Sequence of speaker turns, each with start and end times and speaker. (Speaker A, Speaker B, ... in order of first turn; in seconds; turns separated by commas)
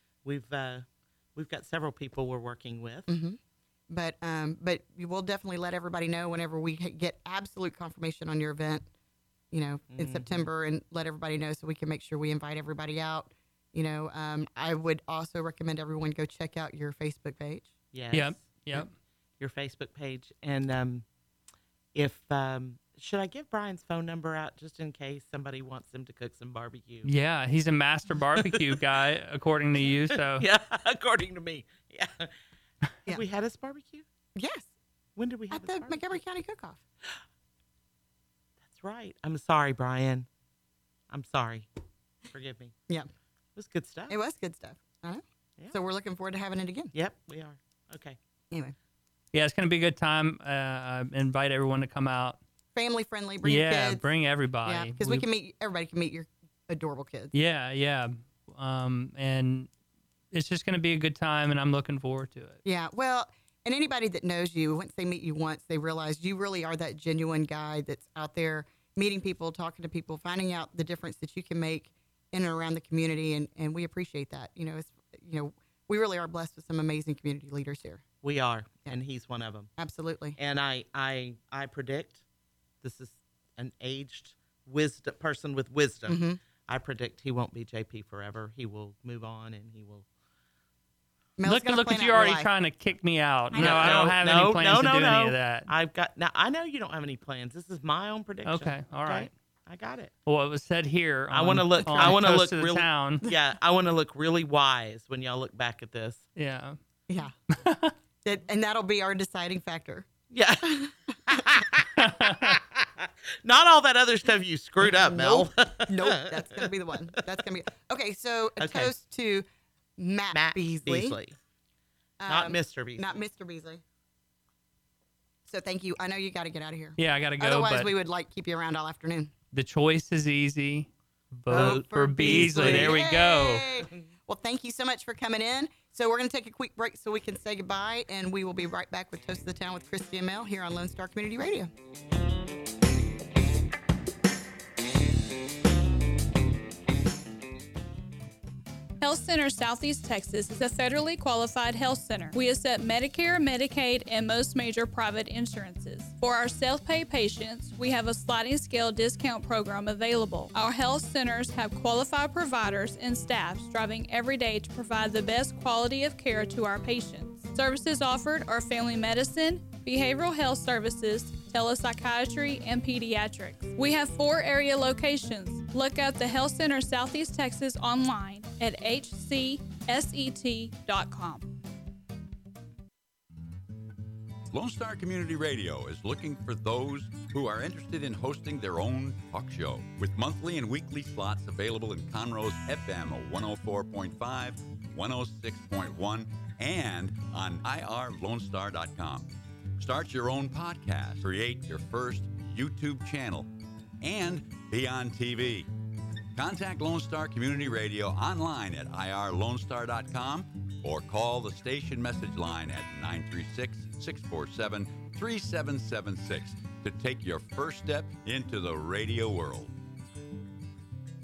Speaker A: 0.2-3.1, Speaker B: 3.1-8.9, Speaker B: 9.5-17.7, Speaker A: 9.9-10.5, Speaker A: 17.9-18.9, Speaker C: 18.1-18.9, Speaker A: 19.4-21.1, Speaker A: 21.9-27.1, Speaker C: 27.1-30.5, Speaker A: 28.4-28.8, Speaker A: 30.1-32.3, Speaker A: 33.1-34.0, Speaker B: 34.4-34.7, Speaker A: 35.1-36.2, Speaker B: 35.5-36.8, Speaker A: 38.6-40.3, Speaker A: 41.1-41.7, Speaker A: 42.3-42.8, Speaker A: 43.6-44.1, Speaker B: 44.1-46.9, Speaker A: 46.9-48.2, Speaker C: 49.3-52.4, Speaker B: 52.7-54.0, Speaker C: 53.4-55.3, Speaker B: 54.6-57.3, Speaker C: 57.3-59.7, Speaker C: 60.3-62.6, Speaker B: 62.6-78.0, Speaker A: 78.2-79.7, Speaker B: 79.8-80.4, Speaker A: 80.4-82.2, Speaker A: 82.8-90.0, Speaker B: 86.1-86.4, Speaker B: 91.4-92.5, Speaker C: 91.5-95.7, Speaker B: 93.5-94.2, Speaker A: 93.5-100.1, Speaker C: 98.5-99.3, Speaker C: 100.3-103.2, Speaker A: 101.3-106.3, Speaker B: 101.9-102.2, Speaker C: 106.4-106.8, Speaker B: 107.1-107.3, Speaker C: 107.5-108.0, Speaker B: 108.2-110.1, Speaker A: 110.3-116.7, Speaker B: 110.6-111.5, Speaker C: 112.0-112.6, Speaker B: 114.8-119.5, Speaker A: 118.6-118.9, Speaker B: 120.0-121.2, Speaker A: 120.3-121.4, Speaker B: 122.2-123.8, Speaker A: 122.3-123.1, Speaker B: 125.5-129.3, Speaker C: 127.0-127.9, Speaker C: 129.5-133.7, Speaker A: 131.5-133.0, Speaker B: 131.5-141.7, Speaker D: 149.0-181.5, Speaker E: 184.5-203.5, Speaker E: 204.0-205.7, Speaker E: 206.3-219.7